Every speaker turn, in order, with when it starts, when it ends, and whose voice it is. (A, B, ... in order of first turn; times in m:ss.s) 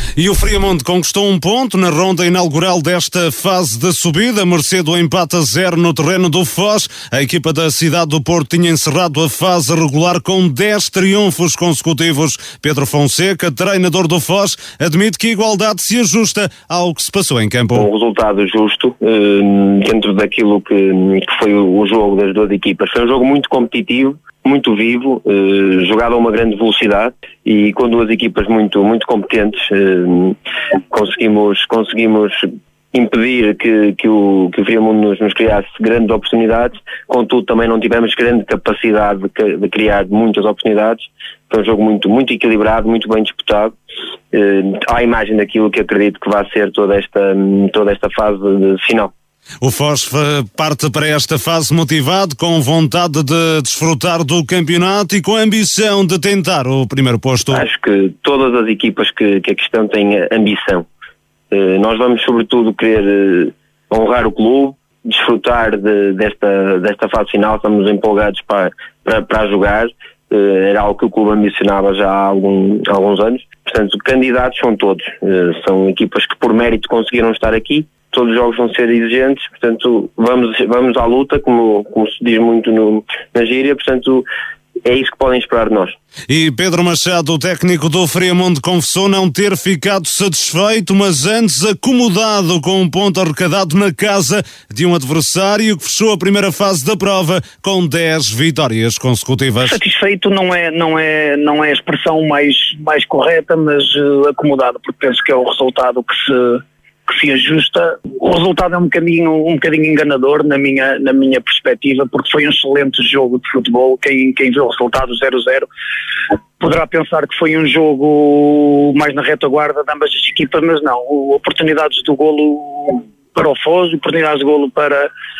0:00.2-0:17.9 A
0:17.7-0:30.4 B
0:30.9-0:43.8 B
0:44.3-0:49.1 B
0:49.6-0:57.6 A
0:57.5-1:00.9 B
1:01.5-1:24.3 B
1:24.8-1:26.0 B
1:26.3-1:39.8 A
1:39.6-1:55.7 C
1:56.6-2:05.1 C